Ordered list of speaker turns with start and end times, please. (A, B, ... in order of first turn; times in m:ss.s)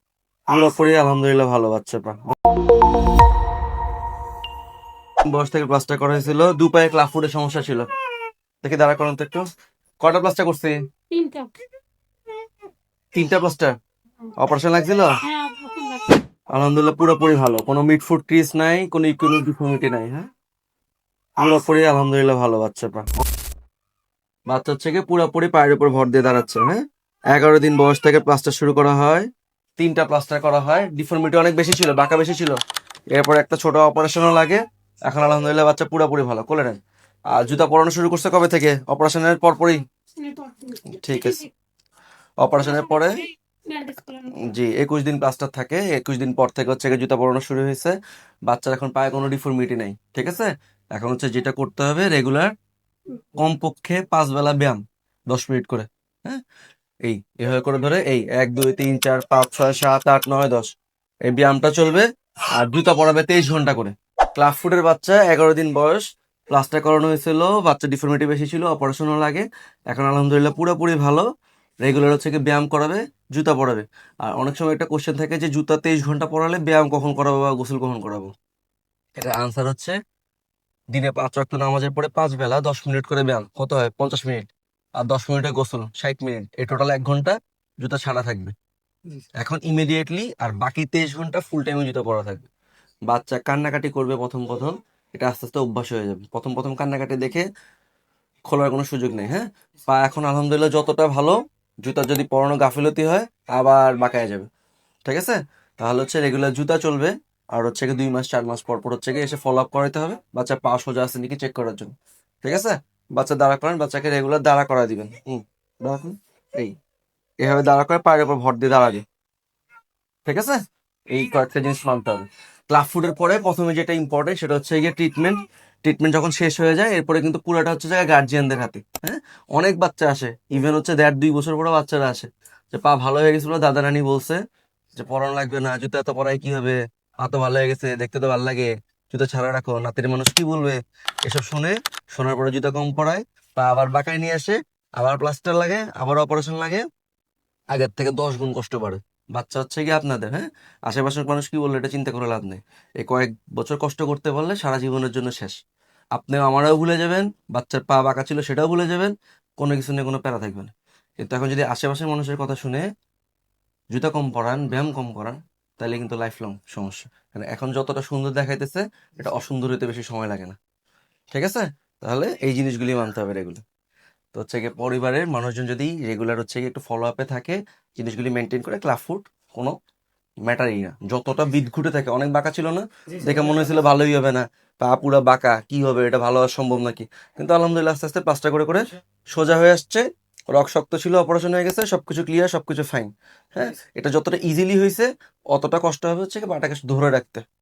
0:00.5-0:02.4 A
0:05.2-0:07.9 A
0:08.6-0:09.5 A
0:10.0-0:10.8 A
0:11.1-0:11.6 B
0:13.1-0:13.8 A
0:14.4-0:15.2 A
0:15.3-0:16.0 B
0:16.5-0:20.3 A
0:21.4-0:23.1 A
0:24.5-0:32.6 A
0:33.1-0:36.8 A
0:37.3-0:39.8 A
0:40.2-0:40.8 B
0:40.9-0:41.5 A
0:42.4-0:43.3 A
0:43.7-0:44.3 B
0:44.3-0:52.5 A
0:53.4-0:56.4 A
0:57.0-1:00.7 A
1:01.3-1:11.3 A
1:11.8-1:18.3 A
1:19.2-1:20.0 A
1:20.9-1:28.6 A
1:29.4-1:32.5 A
1:33.1-1:37.5 A
1:38.5-1:44.5 A
1:45.1-1:56.8 A
1:57.4-1:59.0 A
2:00.3-2:00.6 A
2:01.1-2:14.4 A
2:15.0-2:26.9 A
2:27.7-2:35.6 A
2:36.2-2:42.8 A
2:43.9-2:50.6 A
2:51.3-2:53.6 A
2:54.3-2:59.8 A
3:00.5-3:17.4 A